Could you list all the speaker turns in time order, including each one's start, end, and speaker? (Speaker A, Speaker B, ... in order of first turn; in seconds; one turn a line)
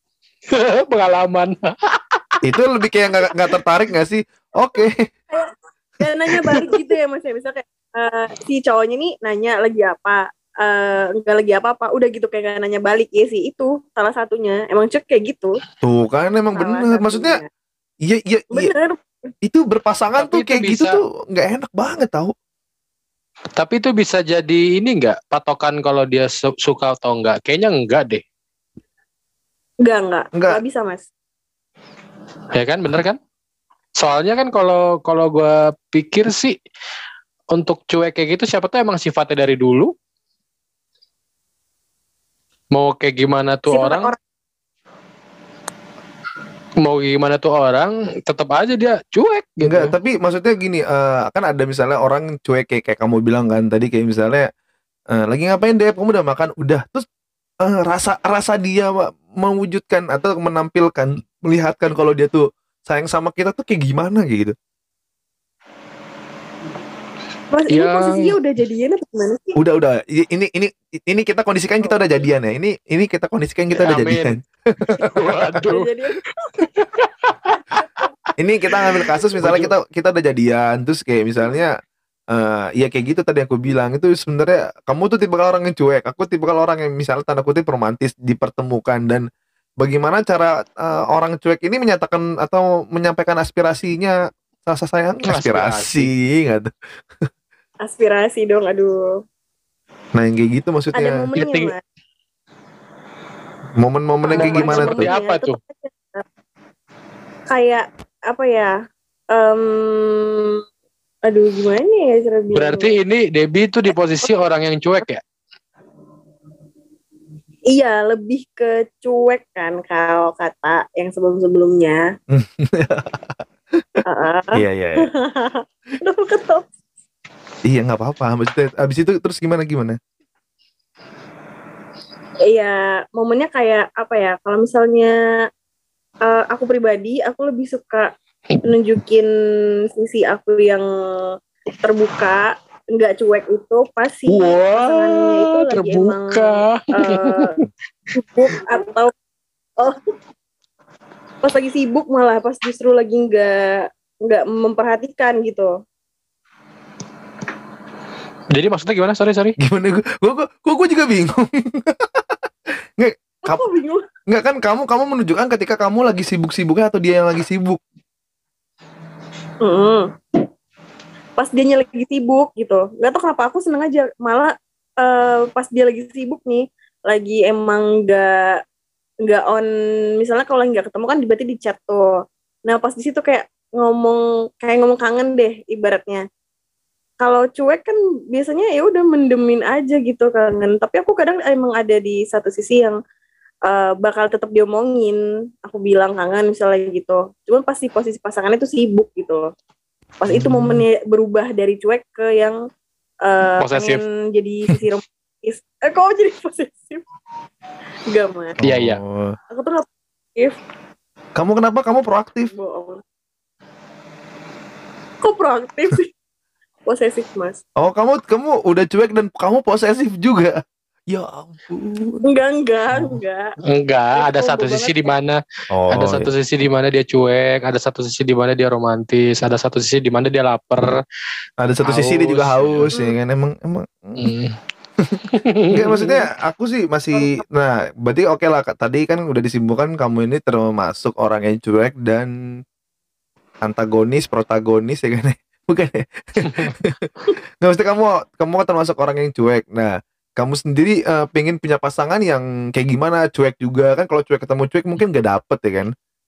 Speaker A: 0.5-2.3
Speaker B: 2.4-5.1
Speaker C: 5.3-15.6
Speaker A: 6.4-6.8
Speaker B: 15.8-17.4
Speaker C: 16.6-17.5
Speaker B: 18.0-18.7
Speaker C: 18.5-19.0
Speaker B: 19.4-22.3
Speaker A: 20.2-21.0
Speaker A: 23.6-28.2
Speaker C: 29.8-31.1
Speaker B: 30.4-30.6
Speaker A: 32.5-33.2
Speaker A: 34.0-36.5
Speaker A: 37.5-39.9
Speaker A: 42.8-44.1
Speaker C: 43.7-44.2
Speaker A: 46.8-49.9
Speaker B: 49.6-54.5
Speaker B: 55.1-57.1
Speaker B: 57.6-64.5
Speaker C: 67.5-69.6
Speaker A: 67.7-68.3
Speaker B: 69.6-75.6
Speaker A: 73.8-74.3
Speaker A: 74.9-75.9
Speaker C: 75.6-76.2
Speaker A: 76.5-77.8
Speaker B: 78.4-81.8
Speaker A: 78.9-79.7
Speaker B: 82.3-89.3
Speaker B: 89.8-96.7
Speaker A: 95.2-96.1
Speaker C: 97.8-99.1
Speaker B: 100.2-101.3
Speaker C: 100.9-101.8
Speaker A: 101.4-101.7
Speaker B: 103.8-105.1
Speaker C: 104.3-106.2
Speaker A: 104.4-105.6
Speaker C: 107.5-108.7
Speaker C: 109.3-110.6
Speaker C: 111.3-113.0
Speaker A: 112.5-115.2
Speaker C: 117.7-122.0
Speaker B: 122.3-124.0
Speaker C: 124.0-126.7
Speaker B: 124.5-125.1
Speaker B: 127.7-130.0
Speaker C: 132.5-135.2
Speaker C: 136.2-138.1
Speaker C: 138.7-139.3
Speaker C: 139.9-147.6
Speaker A: 144.3-147.5
Speaker C: 148.2-149.1
Speaker C: 151.4-155.7
Speaker A: 158.5-159.6
Speaker B: 159.6-162.4
Speaker B: 163.0-163.6
Speaker C: 163.5-164.1
Speaker B: 164.3-167.8
Speaker C: 169.6-170.1
Speaker C: 171.4-178.6
Speaker C: 179.2-179.7
Speaker C: 180.2-182.1
Speaker C: 182.7-186.2
Speaker C: 187.2-193.0
Speaker C: 193.7-199.5
Speaker C: 200.2-202.6
Speaker B: 200.3-200.8
Speaker C: 203.2-207.0
Speaker A: 203.6-204.0
Speaker C: 208.1-208.6
Speaker B: 208.6-209.4
Speaker A: 208.6-209.0
Speaker C: 209.5-210.6
Speaker B: 211.4-212.5
Speaker C: 212.5-213.0
Speaker C: 215.2-216.1
Speaker C: 216.9-217.6
Speaker B: 217.8-222.2
Speaker C: 222.2-223.5
Speaker A: 223.7-225.4
Speaker C: 224.2-225.1
Speaker B: 225.7-226.3
Speaker A: 225.9-231.0
Speaker B: 231.6-234.3
Speaker A: 231.8-232.9
Speaker C: 232.9-233.2
Speaker A: 234.2-234.6
Speaker B: 235.0-242.3
Speaker A: 235.3-236.2
Speaker C: 237.1-237.4
Speaker B: 243.6-247.1
Speaker A: 246.4-246.8
Speaker B: 247.6-255.9